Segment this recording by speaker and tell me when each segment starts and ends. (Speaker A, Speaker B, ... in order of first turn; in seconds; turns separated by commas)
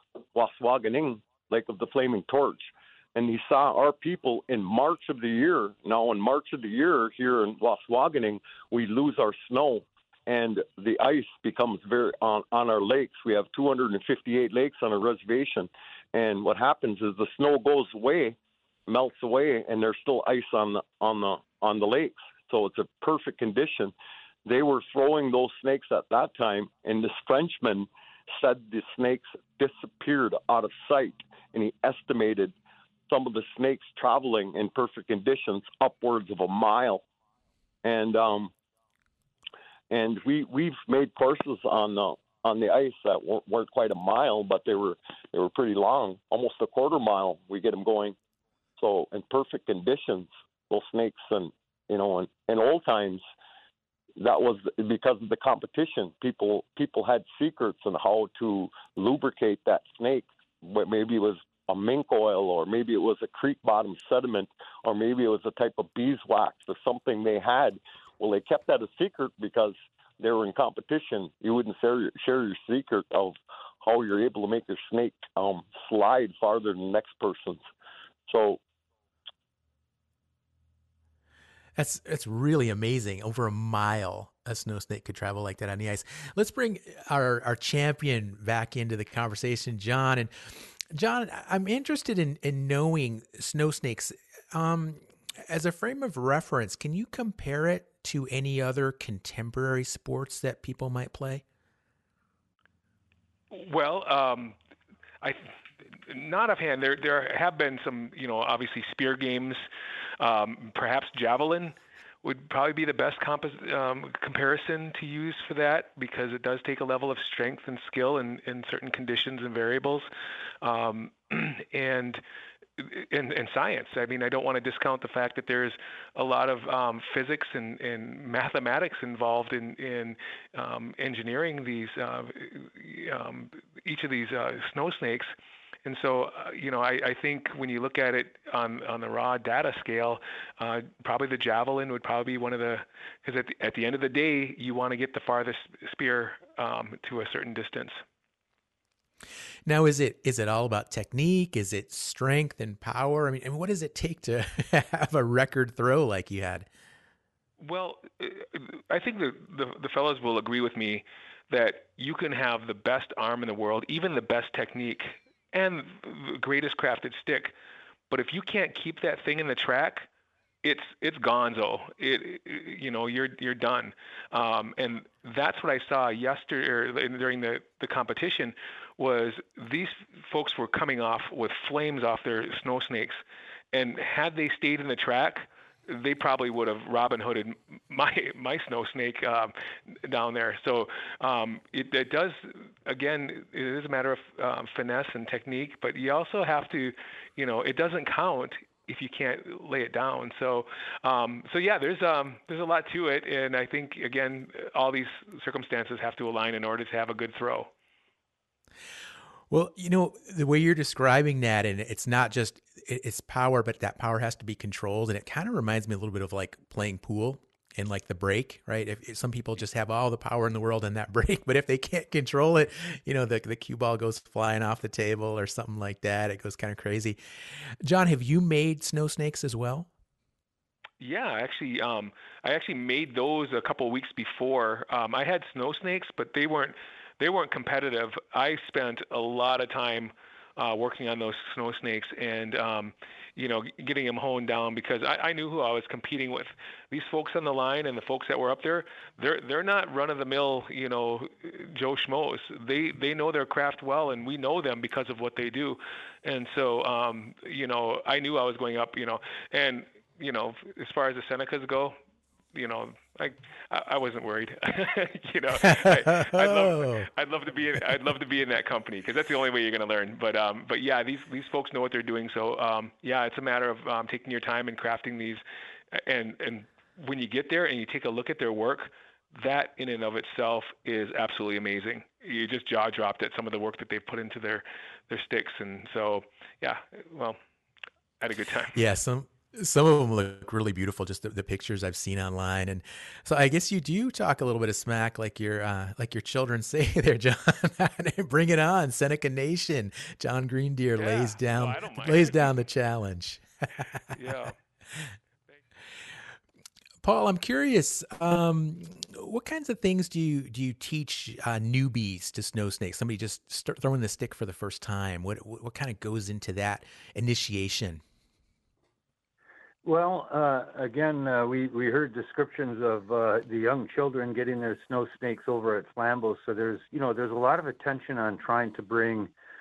Speaker A: 0.3-23.9, Speaker A: 24.4-32.5, Speaker A: 33.1-37.0, Speaker A: 37.8-38.5, Speaker A: 39.9-48.1, Speaker A: 48.8-53.2, Speaker A: 54.2-77.6, Speaker A: 78.2-78.6, Speaker B: 81.8-101.4, Speaker C: 103.5-104.5, Speaker C: 105.2-109.7, Speaker C: 110.2-120.1, Speaker C: 120.6-122.2, Speaker C: 122.8-135.3, Speaker C: 135.8-148.0, Speaker B: 149.7-156.7, Speaker C: 157.6-167.5, Speaker C: 168.1-170.1, Speaker C: 170.6-183.2, Speaker C: 183.7-207.7, Speaker B: 209.5-227.2, Speaker B: 227.8-229.9, Speaker C: 231.0-261.9, Speaker C: 262.5-287.4, Speaker B: 265.6-267.1, Speaker C: 288.2-288.7, Speaker B: 288.7-304.0, Speaker C: 300.9-302.6, Speaker C: 304.1-304.5, Speaker B: 307.0-318.0, Speaker D: 319.8-329.3